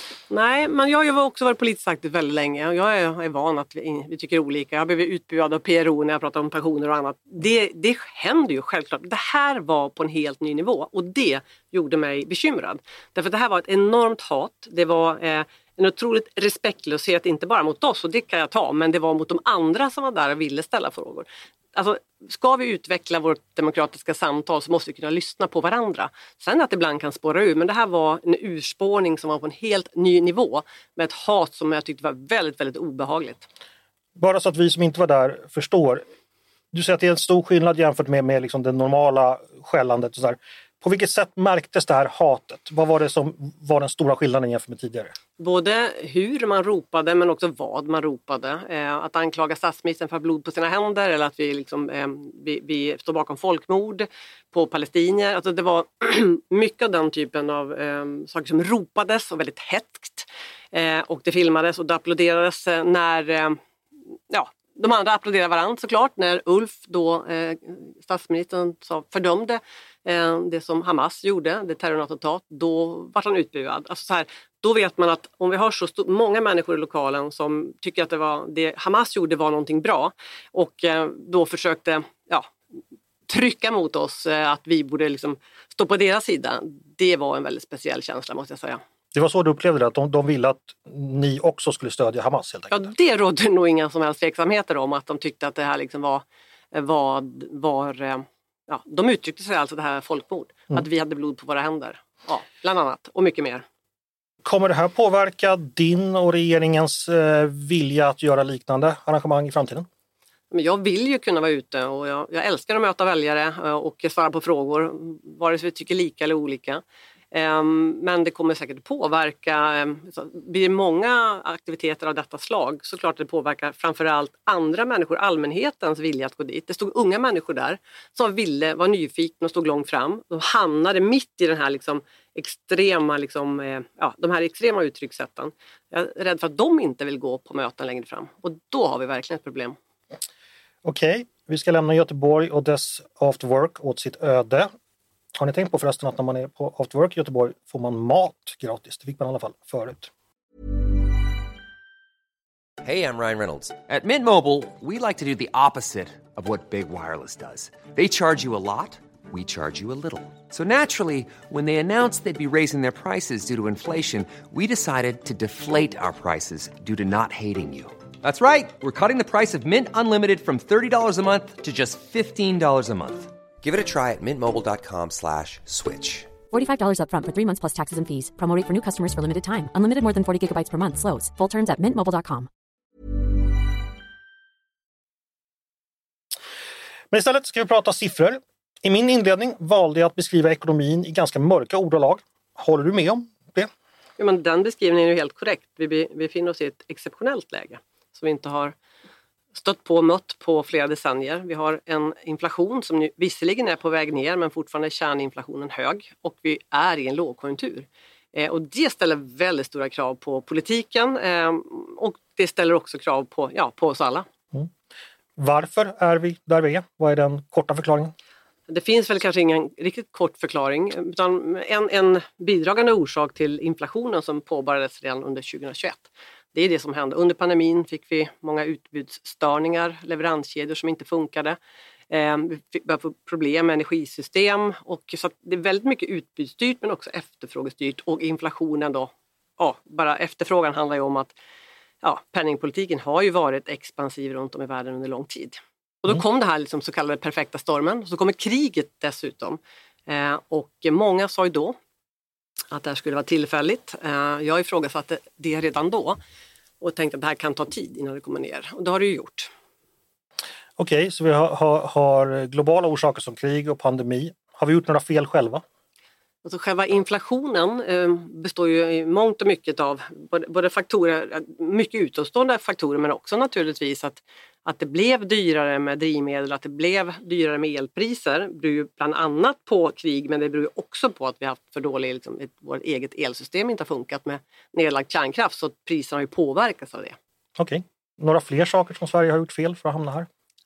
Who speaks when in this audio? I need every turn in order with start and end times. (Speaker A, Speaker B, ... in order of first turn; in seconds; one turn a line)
Speaker A: 0.3-33.4
Speaker B: 34.1-36.0
Speaker B: 36.7-45.1
Speaker A: 45.4-63.6
Speaker A: 64.3-82.5
Speaker A: 83.3-88.8
Speaker B: 89.1-92.9
Speaker A: 92.7-103.6
Speaker B: 104.4-109.9
Speaker A: 110.5-139.8
Speaker B: 140.8-144.7
Speaker B: 145.4-150.1
Speaker C: 152.8-176.3
Speaker D: 176.5-182.5
Speaker B: 187.1-193.7
Speaker A: 194.2-198.7
Speaker A: 199.5-214.2
Speaker B: 215.4-218.1
Speaker A: 218.7-231.6
Speaker A: 232.1-241.3
Speaker A: 242.0-251.8
Speaker A: 252.7-256.2
Speaker A: 256.8-259.5
Speaker B: 260.8-265.6
Speaker A: 266.4-287.1
Speaker B: 287.6-290.3